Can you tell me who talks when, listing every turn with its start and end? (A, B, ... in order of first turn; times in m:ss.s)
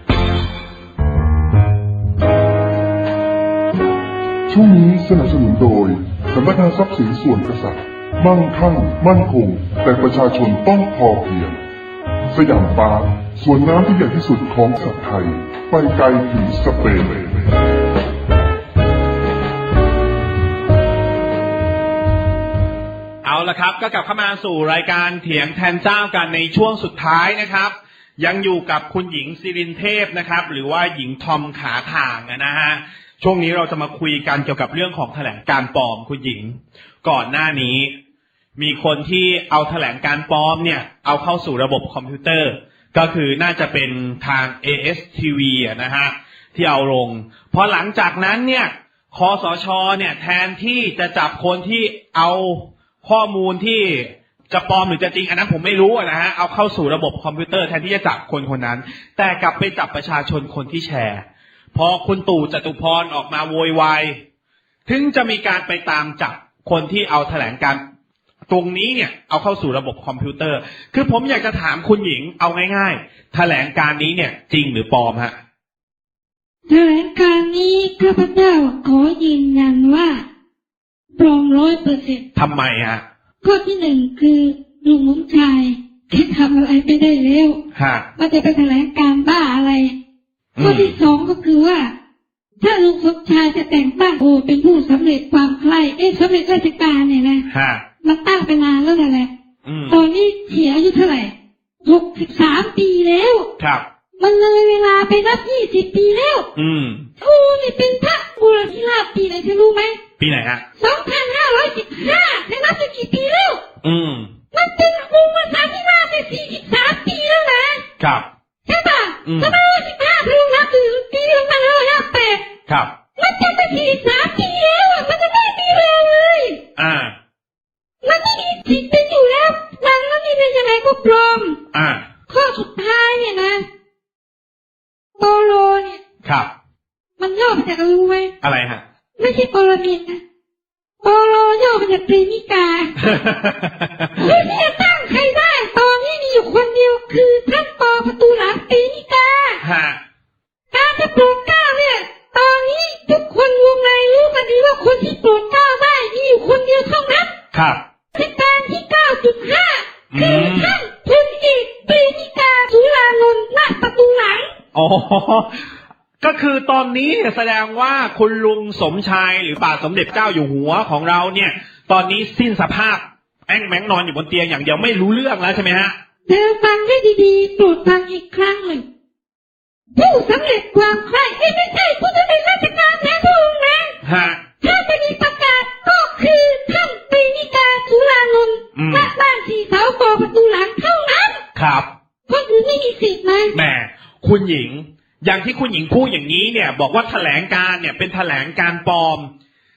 0:04.5-0:11.6 A
0:12.3-0:17.5 A
0:23.2-0:37.9 B
0:38.6-1:04.2 B
1:04.8-1:07.8 B
1:08.5-1:15.3 B
1:16.7-1:20.2 C
1:21.2-1:22.2 C
1:22.4-1:23.0 B
1:23.4-1:27.6 C
1:27.7-1:28.0 B
1:28.2-1:29.9 C
1:30.6-1:30.9 B
1:30.6-1:31.9 C
1:32.6-1:37.4 C
1:37.5-1:37.8 B
1:38.0-1:39.3 C
1:39.6-1:40.0 B
1:39.9-1:43.5 C
1:44.2-1:46.5 C
1:46.6-1:47.1 B
1:47.2-1:50.0 C
1:50.2-1:50.6 B
1:50.8-1:53.6 C
1:53.8-1:54.3 B
1:54.5-1:57.8 C
1:58.0-1:58.2 B
1:58.7-2:02.4 C
1:59.2-1:59.6 B
2:03.2-2:06.6 C
2:06.8-2:07.1 B
2:08.0-2:11.6 C
2:11.7-2:12.0 B
2:12.3-2:13.6 C
2:15.2-2:16.0 C
2:16.2-2:16.5 B
2:17.2-2:18.3 C
2:18.4-2:18.8 B
2:19.2-2:20.2 C
2:21.0-2:23.0 C
2:23.0-2:24.3 B
2:24.2-2:29.6 C
2:29.6-2:30.0 B
2:30.7-2:37.3 C
2:37.5-2:37.8 B
2:38.1-2:44.5 C
2:40.1-2:40.8 B
2:44.7-2:45.7 B
2:46.2-2:55.9 B
2:56.3-2:58.8 C
2:59.9-3:04.0 C
3:04.0-3:04.4 B
3:04.6-3:11.4 C
3:08.7-3:09.1 B
3:11.6-3:11.9 B
3:12.3-3:13.6 C
3:13.5-3:19.3 B